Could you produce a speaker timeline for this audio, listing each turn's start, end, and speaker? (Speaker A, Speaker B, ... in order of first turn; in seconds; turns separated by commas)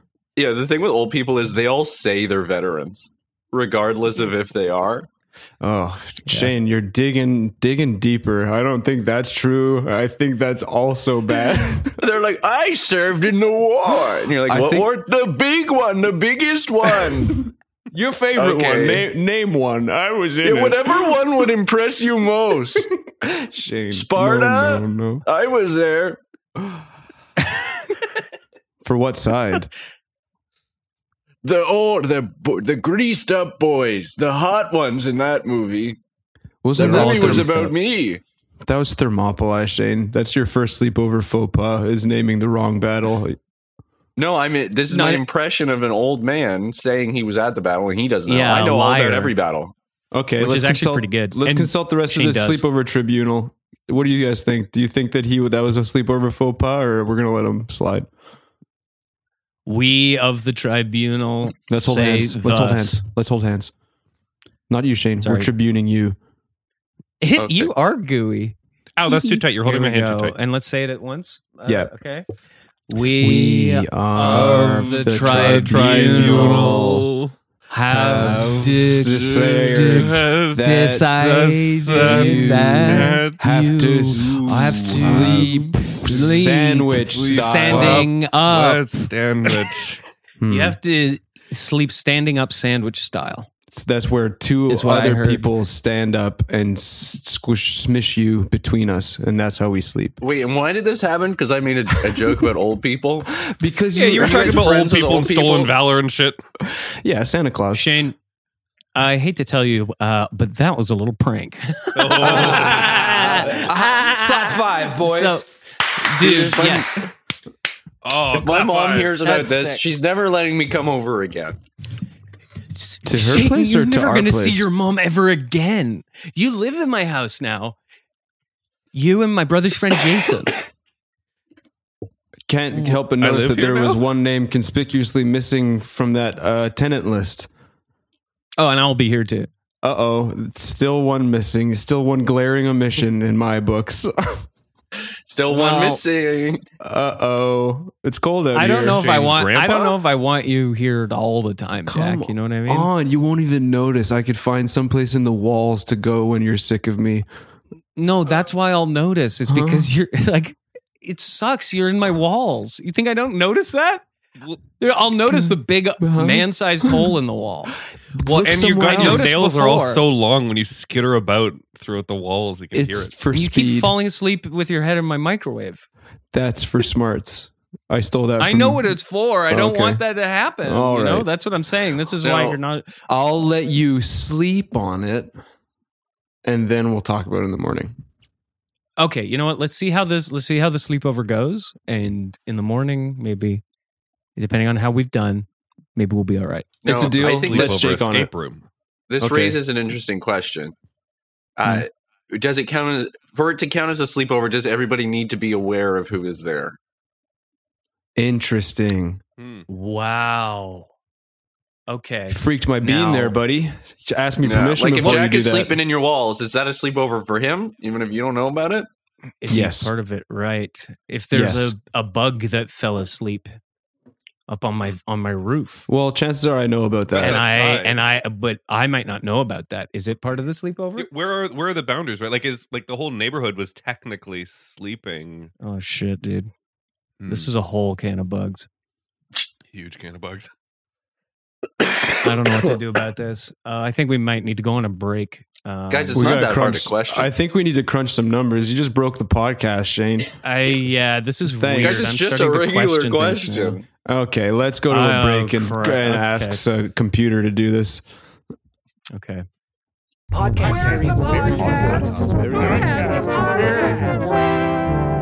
Speaker A: 0.3-5.1, Speaker B: 5.6-12.0, Speaker C: 6.3-6.5, Speaker A: 11.9-17.5, Speaker B: 14.5-14.9, Speaker B: 17.9-21.1, Speaker A: 18.4-19.1, Speaker A: 20.4-22.9, Speaker B: 23.1-25.2, Speaker A: 23.9-26.2, Speaker B: 28.8-29.7, Speaker A: 31.4-36.0, Speaker B: 36.6-37.7, Speaker A: 36.8-38.2, Speaker C: 36.8-37.7, Speaker B: 38.6-43.4, Speaker A: 44.2-49.7, Speaker C: 44.9-45.2, Speaker C: 48.2-49.3, Speaker B: 50.1-58.1, Speaker C: 50.4-52.6, Speaker C: 59.6-63.0, Speaker B: 61.7-63.7, Speaker B: 64.7-66.2, Speaker C: 65.2-65.5, Speaker C: 67.2-68.5, Speaker A: 67.4-67.7, Speaker D: 69.0-70.3, Speaker C: 69.1-72.3, Speaker B: 71.7-71.9, Speaker C: 72.9-76.8, Speaker B: 73.1-77.1, Speaker D: 74.2-77.3, Speaker C: 77.7-88.8, Speaker B: 77.9-81.1, Speaker D: 77.9-86.4, Speaker B: 81.9-88.1, Speaker D: 87.1-90.0, Speaker B: 90.4-90.8, Speaker C: 90.5-93.5, Speaker B: 93.7-100.2, Speaker C: 94.7-95.5, Speaker A: 100.2-103.3, Speaker B: 103.3-104.6, Speaker D: 103.9-106.4, Speaker A: 104.2-105.7, Speaker B: 106.7-107.9, Speaker C: 107.7-108.2, Speaker C: 108.9-115.5, Speaker D: 111.9-113.5, Speaker B: 112.2-115.5, Speaker C: 116.0-117.0, Speaker B: 116.2-116.8, Speaker A: 116.3-116.7, Speaker D: 118.0-119.2, Speaker A: 118.3-121.6, Speaker C: 119.2-119.8, Speaker C: 122.7-127.8, Speaker B: 123.0-124.7, Speaker C: 128.9-130.6, Speaker B: 132.5-137.5, Speaker D: 133.2-134.0, Speaker C: 138.6-139.5, Speaker B: 139.8-144.5, Speaker A: 145.3-146.6, Speaker C: 145.5-146.0, Speaker B: 146.8-149.1, Speaker C: 148.5-152.9, Speaker D: 148.6-150.0, Speaker B: 151.9-157.2, Speaker C: 157.9-164.0, Speaker B: 159.5-159.9, Speaker C: 164.8-167.7, Speaker B: 165.3-167.1, Speaker B: 168.1-169.3, Speaker D: 168.2-173.1, Speaker C: 168.8-170.0, Speaker B: 172.7-173.9, Speaker C: 173.3-175.9, Speaker B: 176.3-178.9, Speaker C: 178.4-182.9, Speaker B: 179.5-180.0, Speaker B: 180.6-181.3, Speaker A: 182.2-182.6, Speaker B: 183.1-185.3, Speaker B: 186.4-187.9, Speaker C: 189.0-193.6, Speaker C: 194.4-196.8, Speaker A: 196.8-197.8, Speaker B: 196.8-198.3, Speaker D: 196.9-198.6, Speaker A: 199.1-200.7, Speaker B: 199.2-199.6, Speaker A: 201.6-206.8, Speaker B: 208.2-209.2, Speaker D: 209.4-209.7, Speaker C: 209.7-210.9, Speaker C: 211.9-213.3, Speaker B: 212.3-215.8, Speaker A: 214.4-218.9, Speaker C: 219.4-223.5, Speaker B: 219.5-219.9, Speaker B: 221.3-221.7, Speaker C: 224.5-225.9, Speaker B: 225.9-227.4, Speaker D: 227.1-228.0, Speaker C: 227.2-231.1, Speaker D: 231.0-235.5, Speaker C: 235.6-236.5, Speaker D: 237.2-237.5, Speaker C: 237.3-238.7, Speaker D: 239.7-240.5, Speaker C: 242.2-246.5, Speaker A: 245.9-247.3, Speaker B: 246.1-250.3, Speaker C: 250.4-253.8, Speaker B: 251.4-252.1, Speaker A: 251.8-253.8, Speaker B: 254.0-258.0, Speaker C: 254.9-256.6, Speaker C: 259.1-259.4, Speaker E: 260.3-264.3